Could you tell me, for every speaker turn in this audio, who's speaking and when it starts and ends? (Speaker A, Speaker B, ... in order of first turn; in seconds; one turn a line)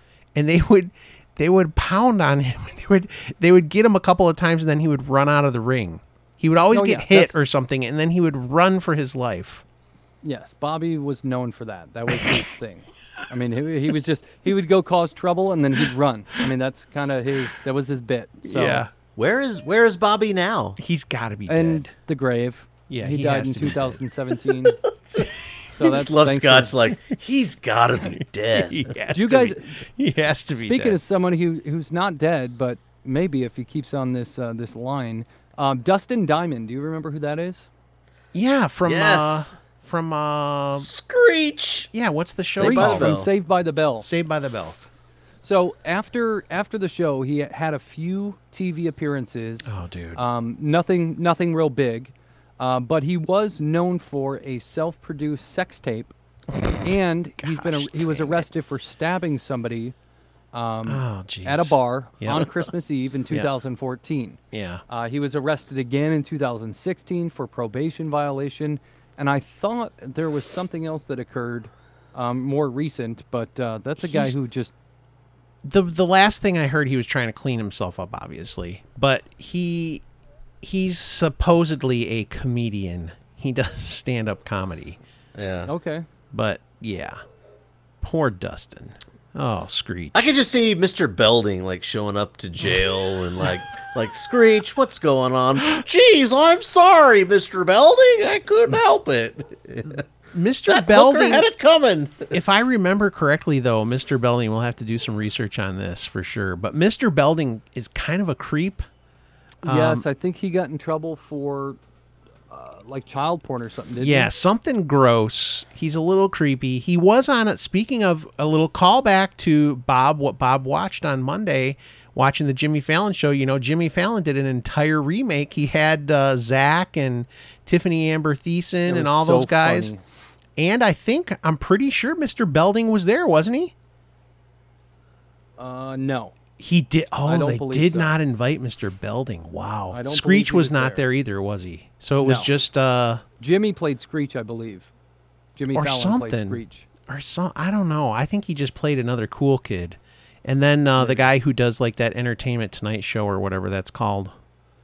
Speaker A: 0.3-9.6
Speaker B: 6.7-7.3
Speaker B: 10.2-18.8
Speaker A: 12.1-12.4
Speaker A: 18.4-18.9
Speaker C: 19.1-20.8
Speaker A: 20.8-21.9
Speaker B: 21.5-24.8
Speaker A: 22.9-24.0
Speaker B: 25.7-26.7
Speaker C: 25.8-28.9
Speaker A: 28.5-31.0
Speaker B: 29.1-29.7
Speaker B: 30.6-37.7
Speaker A: 38.3-40.9
Speaker C: 38.8-39.5
Speaker C: 40.7-41.9
Speaker A: 41.9-43.1
Speaker C: 42.5-43.3
Speaker B: 42.6-44.1
Speaker A: 44.0-44.8
Speaker B: 45.4-56.1
Speaker A: 49.6-50.2
Speaker A: 56.5-58.5
Speaker B: 56.8-59.9
Speaker B: 60.5-74.7
Speaker A: 60.8-62.7
Speaker A: 64.5-64.8
Speaker A: 74.0-74.3
Speaker A: 75.6-80.0
Speaker A: 80.6-85.0
Speaker C: 85.3-85.7
Speaker B: 85.7-86.0
Speaker A: 86.3-87.2
Speaker A: 88.0-90.3
Speaker C: 90.1-100.0
Speaker A: 100.3-101.5
Speaker C: 100.7-102.3
Speaker A: 102.3-108.8
Speaker A: 109.6-110.0
Speaker B: 109.6-111.8
Speaker B: 112.5-114.3
Speaker A: 114.0-129.9
Speaker B: 128.8-130.0
Speaker A: 130.6-133.7
Speaker B: 135.6-136.3
Speaker A: 136.6-143.2
Speaker B: 137.2-138.1
Speaker B: 139.9-141.1
Speaker B: 142.2-142.5
Speaker B: 143.4-144.9
Speaker B: 145.6-146.8
Speaker A: 145.7-154.3
Speaker B: 151.0-151.3